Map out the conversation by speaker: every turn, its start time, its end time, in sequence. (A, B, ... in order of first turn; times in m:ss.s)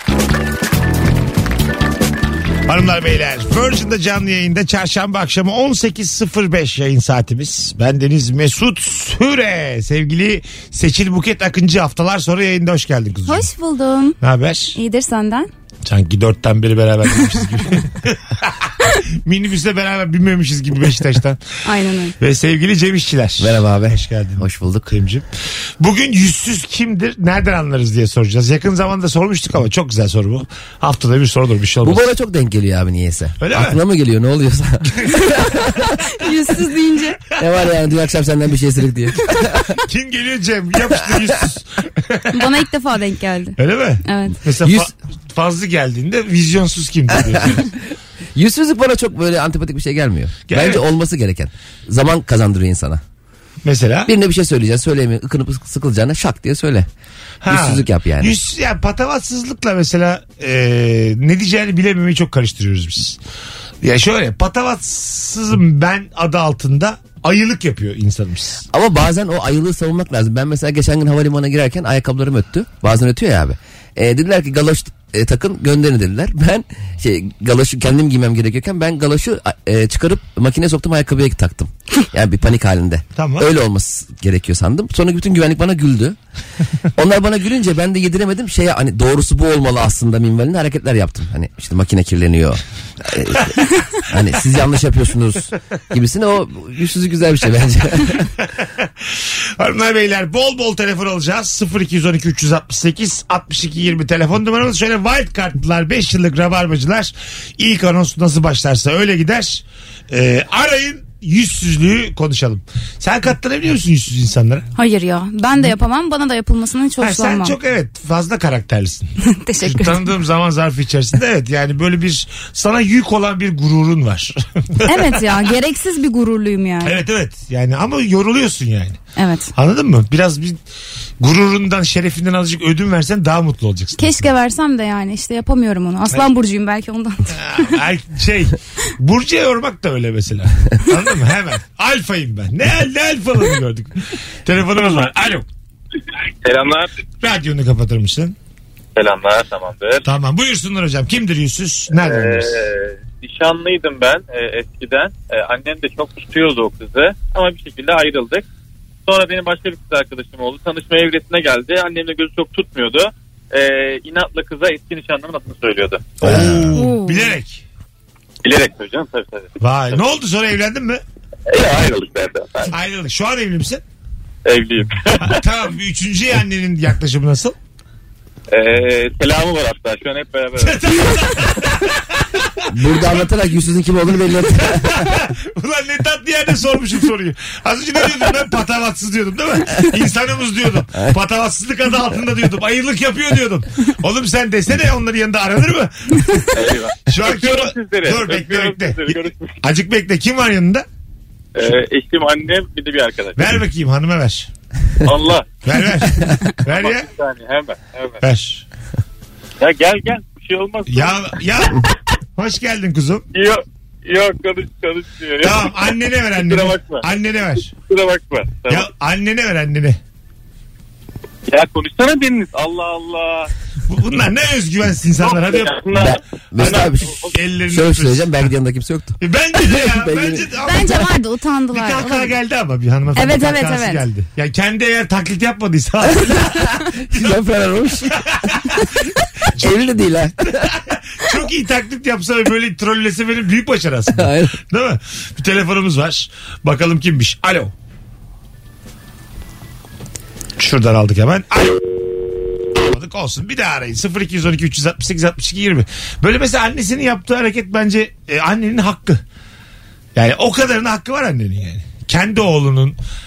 0:02.7-0:13.5 A
0:13.3-0:14.2 B
0:14.2-0:14.8 A
0:14.8-0:15.5 B
0:15.8-0:18.7 A
0:19.2-0:21.4 A
0:21.6-0:22.2 B
0:22.2-0:25.3 A
0:23.4-0:24.9 C
0:25.8-0:32.1 A
0:31.8-0:35.8 C
0:33.4-0:33.8 A
0:36.1-0:37.2 B
0:37.4-0:39.7 C
0:39.9-0:42.4 A
0:42.3-0:44.4 B
0:43.6-0:47.7 A
0:44.6-0:44.9 C
0:47.2-0:47.6 C
0:48.4-0:53.0 C
0:50.5-0:50.8 A
0:53.6-0:54.1 A
0:54.1-0:56.9 C
0:57.4-1:03.2 A
0:57.5-0:58.3 C
1:03.8-1:08.6 A
1:08.7-1:26.2 C
1:23.2-1:23.5 A
1:27.0-1:38.3 C
1:38.4-1:54.7 A
1:54.8-1:57.6 B
1:57.0-1:59.1 A
1:59.2-2:00.1 B
1:59.6-2:05.2 A
2:04.8-2:07.0 B
2:06.8-2:09.0 A
2:09.2-2:09.5 B
2:09.6-2:10.6 A
2:11.2-2:14.3 A
2:14.0-2:17.8 B
2:17.3-2:25.5 A
2:26.4-2:27.0 D
2:27.2-2:28.4 A
2:29.0-2:30.0 D
2:30.0-2:32.5 A
2:32.0-2:38.5 D
2:39.1-2:46.1 D
2:46.2-2:47.6 A
2:46.2-2:46.7 C
2:46.7-2:47.4 B
2:48.4-2:50.0 D
2:49.6-2:51.0 A
2:51.5-2:52.7 D
2:52.7-2:53.8 A
2:54.5-2:55.4 D
2:55.2-2:57.6 A
2:58.5-3:01.2 D
3:00.6-3:03.1 A
3:02.7-3:05.1 C
3:04.6-3:16.5 A
3:16.5-3:19.6 D
3:17.1-3:20.8 A
3:21.6-3:23.4 D
3:23.4-3:24.5 A
3:25.0-3:25.5 D
3:25.6-3:27.1 A
3:26.6-3:28.2 D
3:28.2-3:28.6 A
3:29.6-3:31.3 D
3:30.9-3:31.8 A
3:32.4-3:33.2 A
3:33.3-3:37.0 D
3:35.4-3:37.7 A
3:37.7-3:38.9 D
3:38.7-3:40.0 A
3:41.5-3:43.5 D
3:43.9-3:45.8 A
3:45.2-3:47.4 D
3:46.0-3:47.1 C
3:46.6-3:48.5 A
3:47.7-3:51.0 C
3:49.2-3:51.0 A
3:50.6-3:52.4 B
3:51.7-3:57.4 A
3:53.2-3:54.0 B
3:56.2-3:58.5 C
3:58.1-3:59.0 A
3:59.6-3:59.9 A
3:59.6-4:00.7 C
4:00.7-4:07.7 A
4:04.1-4:04.6 C
4:10.6-4:11.8 A
4:12.7-4:19.2 A
4:20.2-4:23.0 A